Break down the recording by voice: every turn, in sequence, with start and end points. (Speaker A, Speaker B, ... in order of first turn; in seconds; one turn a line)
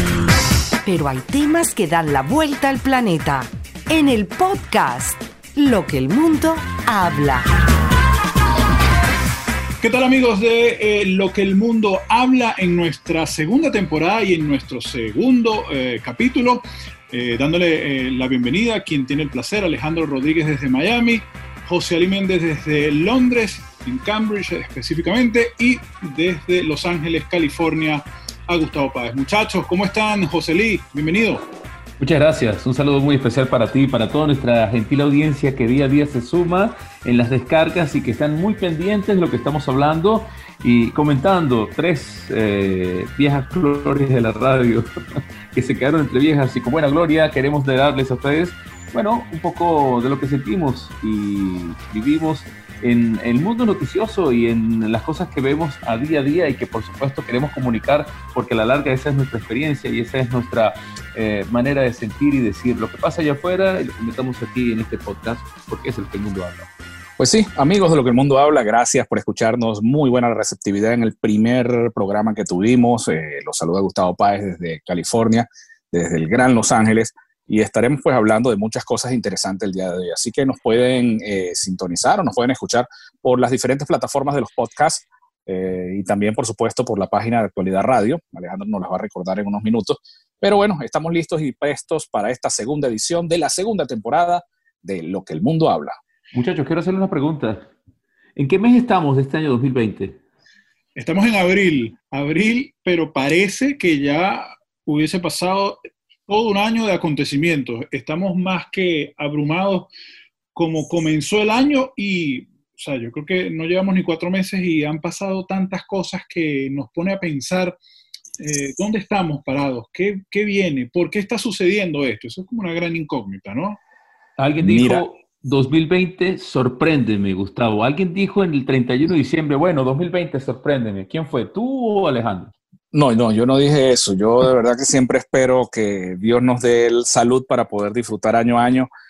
Speaker A: 0.8-7.5
Speaker B: 9.8-31.4
Speaker C: 32.0-44.9
Speaker C: 45.5-66.7
Speaker D: 67.2-96.0
Speaker C: 96.3-97.7
Speaker C: 98.4-100.2
Speaker B: 101.0-109.9
Speaker B: 110.5-117.8
Speaker B: 118.4-123.8
Speaker C: 124.4-132.5
Speaker D: 124.6-125.0
Speaker D: 132.9-138.9